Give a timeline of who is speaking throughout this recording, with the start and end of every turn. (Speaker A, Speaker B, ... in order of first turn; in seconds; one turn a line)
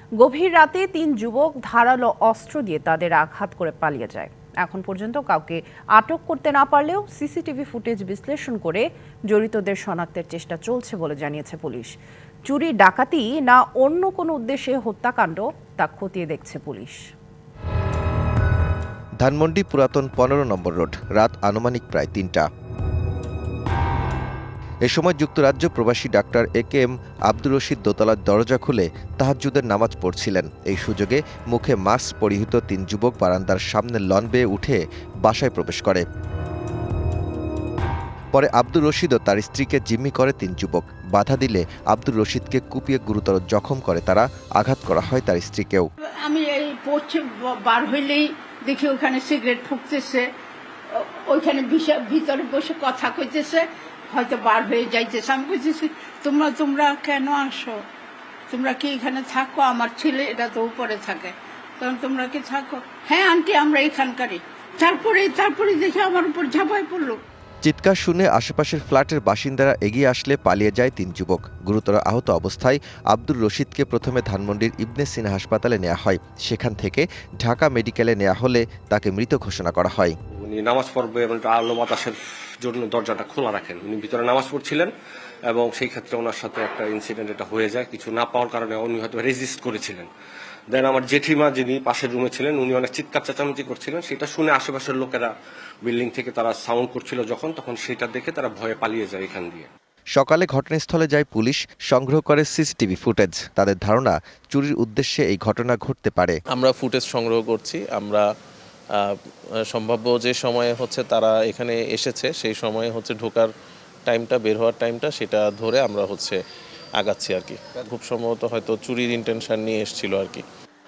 Speaker A: 0.2-11.9
Speaker A: 12.5-17.0
Speaker B: 19.2-22.4
Speaker B: 24.9-36.0
Speaker B: 38.3-45.9
Speaker C: 46.0-50.3
Speaker C: 50.9-57.8
Speaker C: 58.5-67.2
Speaker B: 67.6-80.1
Speaker D: 80.4-84.9
Speaker D: 85.5-90.1
Speaker D: 90.7-95.3
Speaker D: 95.8-99.7
Speaker B: 100.2-106.4
Speaker E: 106.5-108.2
Speaker E: 109.7-113.5
Speaker E: 114.1-116.4
Speaker E: 117.0-120.4